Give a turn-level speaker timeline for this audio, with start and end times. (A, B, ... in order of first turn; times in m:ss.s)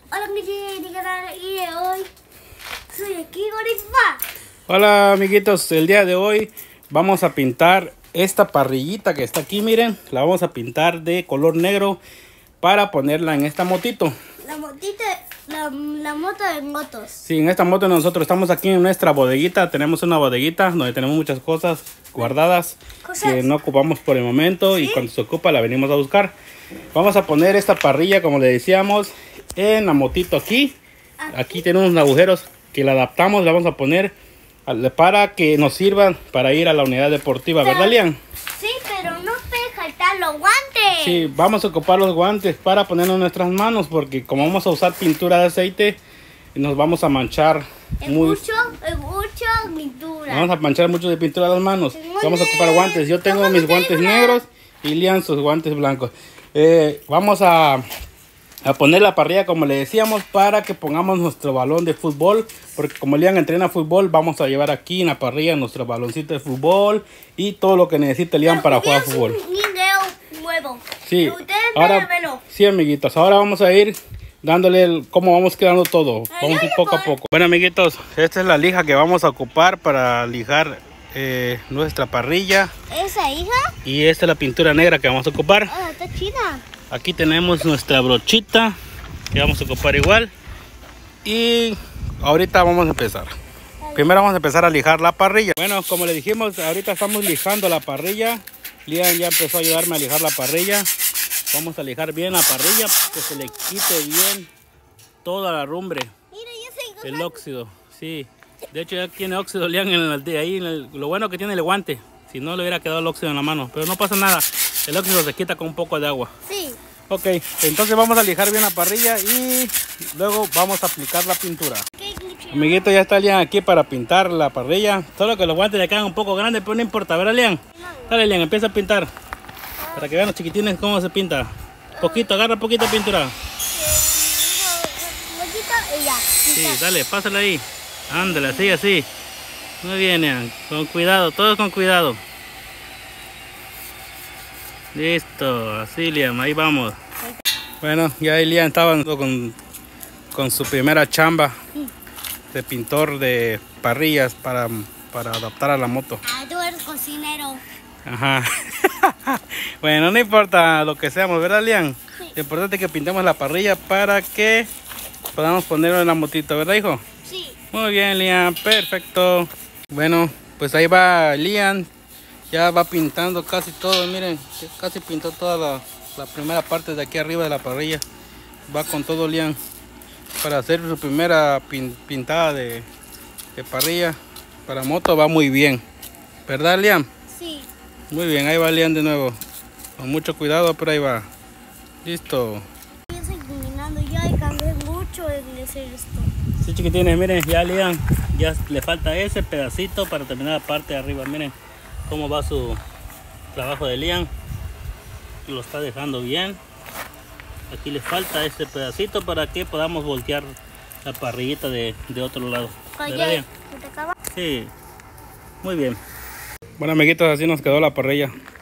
0:00.1-0:02.1 A
0:02.9-0:04.2 A
0:04.7-0:12.0 B
0:12.6-0:14.1 B
0:14.4-0:17.2 A
0:17.2-0:26.3 B
0:23.0-0:23.4 A
0:24.7-0:25.0 A
0:26.9-0:30.7 B
0:31.2-0:31.7 A
0:31.3-0:34.1 B
0:34.6-0:38.2 B
0:37.6-0:38.0 A
0:38.6-0:41.3 A
0:41.0-0:46.0 B
0:46.5-0:48.4 B
0:48.0-0:50.5 A
0:50.3-0:57.8 B
0:51.9-0:54.4 A
0:58.6-1:09.4 B
1:08.4-1:12.4 A
1:11.0-1:22.7 B
1:16.3-1:17.2 A
1:22.9-1:23.7 A
1:23.8-1:25.7 B
1:25.7-1:26.6 A
1:26.9-1:28.8 B
1:29.3-1:30.3 B
1:31.2-1:33.3 B
1:33.8-1:34.2 A
1:33.9-1:40.9 B
1:41.5-1:44.5 B
1:42.8-1:43.8 A
1:45.2-1:46.1 B
1:46.3-1:47.4 A
1:47.0-1:56.3 B
1:56.4-1:56.8 A
1:57.1-2:01.8 B
2:01.9-2:02.9 A
2:02.5-2:09.1 B
2:09.8-2:10.2 A
2:09.9-2:13.3 B
2:12.0-2:12.3 A
2:13.7-2:16.8 A
2:16.5-2:19.1 B
2:18.2-2:18.8 A
2:19.8-2:22.2 B
2:24.9-2:27.0 B
2:27.8-2:29.6 B
2:30.3-2:31.6 B
2:32.5-2:36.2 B
2:36.2-2:37.6 A
2:38.0-2:44.7 B
2:45.3-2:47.0 B
2:47.2-2:47.6 A
2:47.7-2:51.9 B
2:52.5-2:58.0 B
2:58.7-2:59.6 B
3:00.4-3:02.9 B
3:03.5-3:05.8 B
3:06.5-3:07.1 B
3:07.3-3:07.7 A
3:08.1-3:09.4 B
3:10.0-3:11.2 B
3:12.0-3:12.6 B
3:13.1-3:16.3 A
3:16.6-3:21.5 B
3:22.1-3:22.8 B
3:23.5-3:24.3 B
3:25.4-3:26.6 B
3:27.7-3:33.5 B
3:33.0-3:34.2 A
3:34.3-3:34.7 B
3:35.6-3:36.0 B
3:36.8-3:38.3 B